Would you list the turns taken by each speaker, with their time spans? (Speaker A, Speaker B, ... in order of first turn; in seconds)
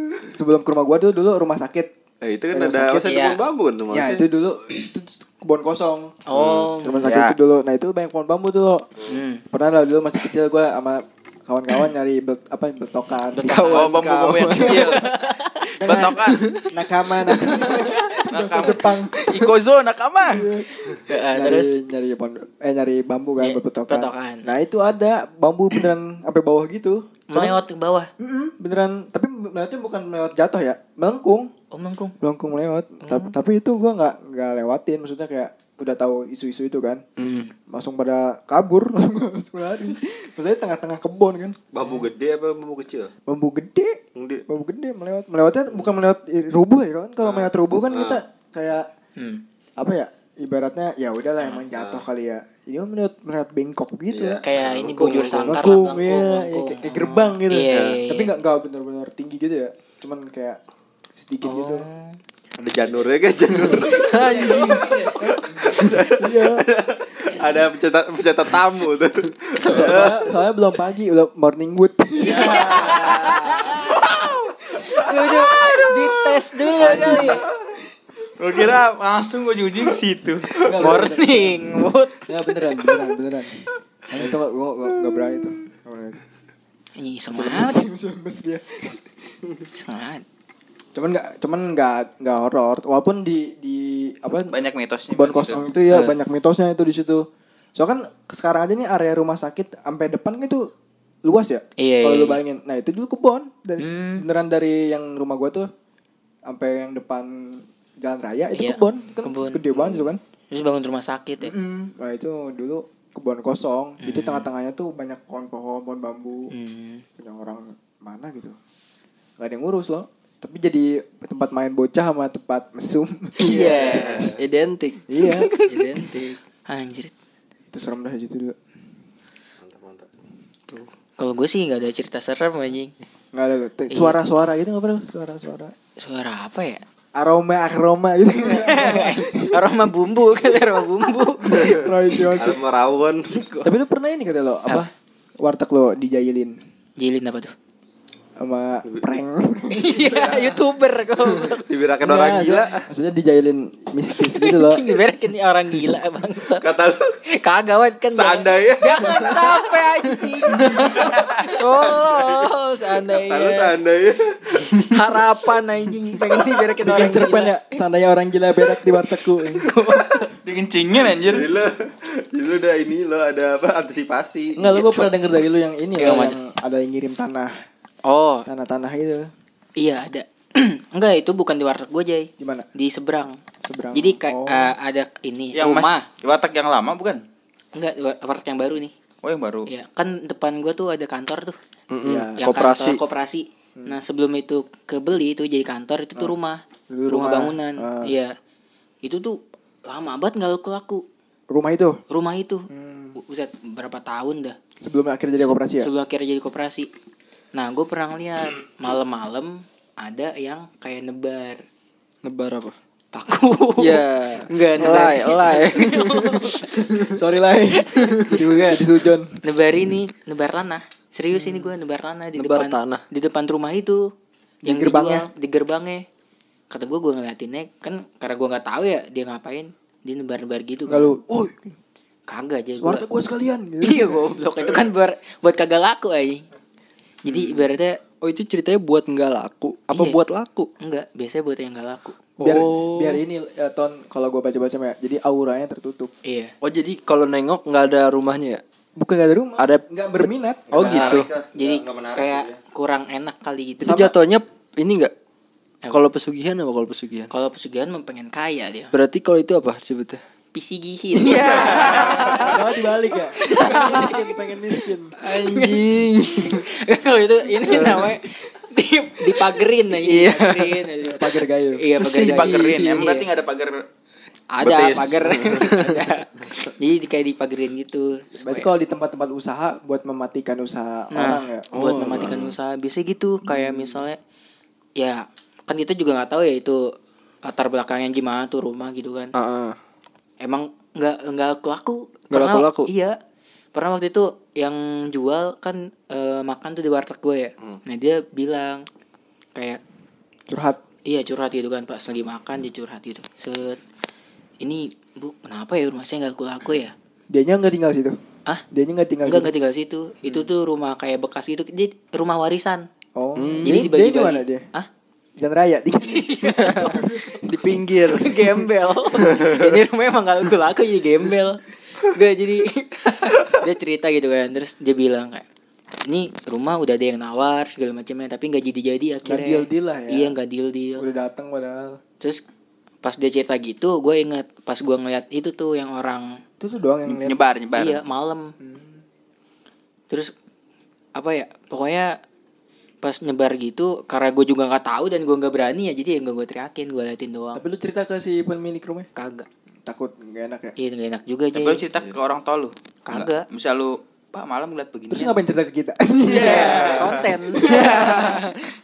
Speaker A: 0.2-1.9, 2.5-3.0, 3.9-6.2, 6.8-8.9, 9.5-13.5, 14.7-15.0, 15.8-19.6, 20.3-27.6, 28.2-31.5, 32.2-37.0, 37.7-41.6, 43.3-48.9, 49.8-54.4, 55.4-60.6, 61.1-61.9, 66.0-66.6, 69.7-73.8, 75.0-76.1, 76.8-77.4, 80.6-83.6, 84.2-86.2, 87.3-89.1, 91.0-94.5, 95.1-100.6, 101.2-105.7, 106.5-110.2, 111.4-116.5, 117.2-118.6, 119.4-124.3, 125.1-125.5, 127.7-128.6, 133.3-135.7, 137.2-139.8, 141.5-142.6, 143.6-144.9, 145.4-146.6, 148.4-150.3, 152.0-154.8, 166.8-169.7, 174.6-177.5, 178.5-179.3, 182.4-182.7, 183.7-184.7, 192.0-192.4, 196.9-198.1, 201.5-202.0, 202.7-203.2, 204.8-205.9, 214.8-219.4, 221.3-221.7, 224.6-225.3, 230.9-231.8, 232.8-234.8, 237.3-237.6, 242.4-246.1, 249.0-250.8, 261.2-265.1, 271.0-271.8, 278.4-281.7, 283.4-284.1, 300.5-300.8, 307.3-308.2, 308.7-309.5, 313.2-314.6, 315.4-318.5, 329.2-330.4, 331.0-332.0, 336.6-337.4, 338.6-339.0, 347.6-349.1, 349.9-350.8, 355.1-358.5
Speaker B: 2.2-4.3, 6.3-6.7, 41.7-43.1, 44.1-44.4, 47.2-48.2, 51.7-52.1, 54.1-55.6, 57.7-58.0, 62.6-64.2, 65.3-70.3, 109.8-110.1, 123.8-124.4, 129.6-130.2, 141.5-143.3, 150.1-150.6, 151.6-152.9, 156.6-157.0, 158.1-159.4, 161.8-162.5, 163.0-164.3, 171.1-174.8, 250.7-252.6, 261.5-262.4, 274.6-275.7, 356.6-357.2
Speaker C: 3.0-3.4, 6.3-7.1, 9.1-9.4, 13.3-14.0, 14.6-15.7, 21.1-21.8, 23.4-24.5, 27.3-28.1, 31.7-32.2, 33.0-33.3, 37.2-37.5, 54.4-58.3, 61.5-62.2, 64.1-65.3, 72.3-74.2, 74.8-77.4, 80.8-82.8, 84.1-84.4, 87.0-87.8, 89.7-90.2, 101.8-102.4, 103.8-104.2, 108.6-109.7, 110.5-111.5, 114.0-114.5, 116.5-117.0, 123.4-124.3, 125.2-127.1, 130.7-132.9, 133.9-134.2, 136.0-136.8, 138.4-141.8, 143.3-143.7, 147.0-147.6, 149.7-151.6, 154.2-156.7, 157.3-163.7, 164.5-167.8, 169.4-170.3, 174.7-175.1, 176.0-176.4, 178.1-178.5, 179.8-183.4, 183.9-186.1, 187.8-188.9, 189.7-191.6, 192.4-198.3, 199.0-201.0, 202.1-204.6, 205.4-206.9, 207.5-211.6, 213.1-216.9, 217.7-224.0, 224.7-226.1, 226.7-231.1, 232.3-233.1, 233.8-236.4, 237.3-238.0, 239.9-240.2, 240.8-242.6, 246.3-246.5, 250.8-254.1, 257.3-258.9, 260.5-264.3, 265.3-273.3, 274.5-278.7, 281.1-284.2, 285.0-286.9, 287.4-289.3, 290.4-293.1, 293.7-298.9, 299.6-299.8, 301.1-303.8, 304.6-306.9, 309.2-312.9, 313.6-314.9, 316.1-317.1, 318.1-325.4, 326.1-331.1, 333.0-336.3, 337.7-338.5, 341.2-342.1, 343.0-347.6, 349.2-349.5, 350.8-351.8, 353.1-353.4, 356.3-358.5
Speaker D: 7.0-7.4, 13.7-15.1, 15.8-16.6, 17.6-20.5, 64.2-65.8, 72.3-74.5, 78.4-80.6, 94.5-95.6, 161.0-161.5, 170.4-171.5, 185.6-187.2, 189.2-189.7, 272.2-273.8, 337.1-338.0, 351.6-355.4, 356.2-357.2
Speaker E: 13.4-15.0, 16.3-16.6, 37.2-37.5, 64.0-65.0, 123.4-125.0, 125.7-126.4, 160.5-160.9, 191.9-193.0, 212.2-212.8, 213.8-216.1, 216.7-217.1, 222.4-223.0, 238.2-240.7, 242.4-243.2, 246.6-248.6, 249.6-251.3, 253.8-255.1, 255.9-257.3, 258.9-260.2, 265.2-266.6, 269.9-270.9, 272.0-273.1, 275.7-276.0, 281.7-282.5, 289.4-289.8, 292.3-292.9, 313.4-313.8, 316.6-318.5